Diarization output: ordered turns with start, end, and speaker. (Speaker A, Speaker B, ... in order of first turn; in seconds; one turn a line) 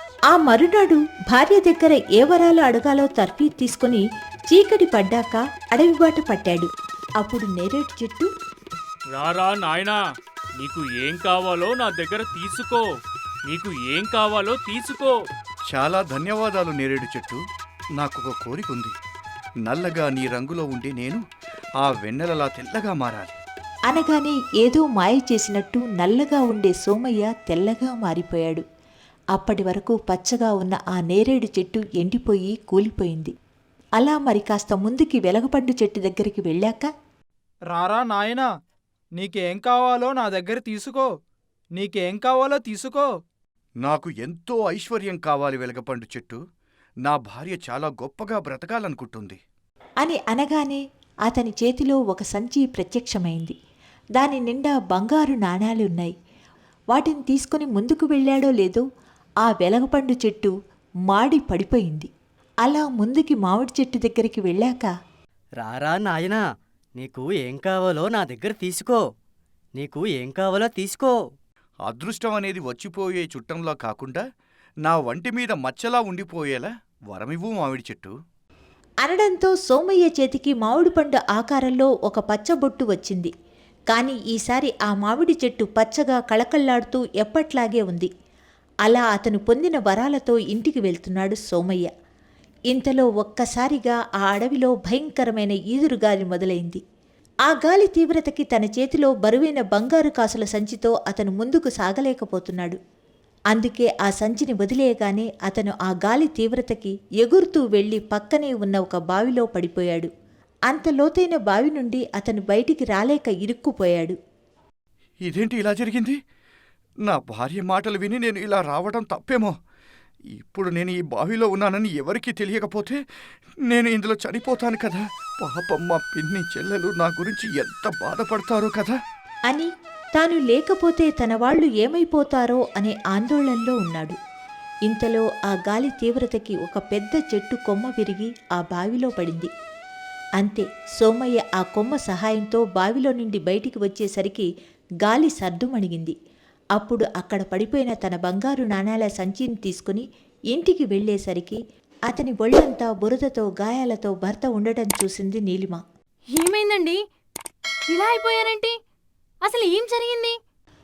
Speaker A: 0.3-6.7
Speaker A: 7.2-8.3
Speaker B: 9.1-10.0
Speaker B: 10.6-12.9
Speaker B: 13.5-15.2
Speaker C: 15.7-17.4
Speaker C: 18.0-18.9
Speaker C: 19.7-21.2
Speaker C: 21.8-23.4
Speaker A: 23.9-28.6
Speaker A: 29.3-33.3
Speaker A: 34.0-36.9
Speaker D: 37.7-38.5
Speaker D: 39.1-41.1
Speaker D: 41.8-43.1
Speaker C: 43.8-46.4
Speaker C: 47.0-49.4
Speaker A: 50.0-53.5
Speaker A: 54.2-56.1
Speaker A: 56.9-58.8
Speaker A: 59.4-60.5
Speaker A: 61.1-62.1
Speaker A: 62.6-64.9
Speaker E: 65.6-66.4
Speaker E: 67.0-69.0
Speaker E: 69.8-71.2
Speaker C: 71.8-74.2
Speaker C: 74.9-78.1
Speaker A: 79.0-83.3
Speaker A: 83.9-88.1
Speaker A: 88.8-91.9
Speaker A: 92.7-96.8
Speaker A: 97.5-102.8
Speaker A: 103.5-110.1
Speaker A: 110.7-114.2
Speaker C: 115.2-116.2
Speaker C: 117.1-119.5
Speaker C: 120.4-123.0
Speaker C: 123.7-128.9
Speaker A: 129.5-134.2
Speaker A: 134.9-139.5
Speaker A: 140.4-144.5
Speaker A: 145.0-146.1
Speaker A: 146.8-151.6
Speaker A: 152.1-155.8
Speaker F: 156.4-157.0
Speaker F: 157.9-158.7
Speaker F: 159.4-160.3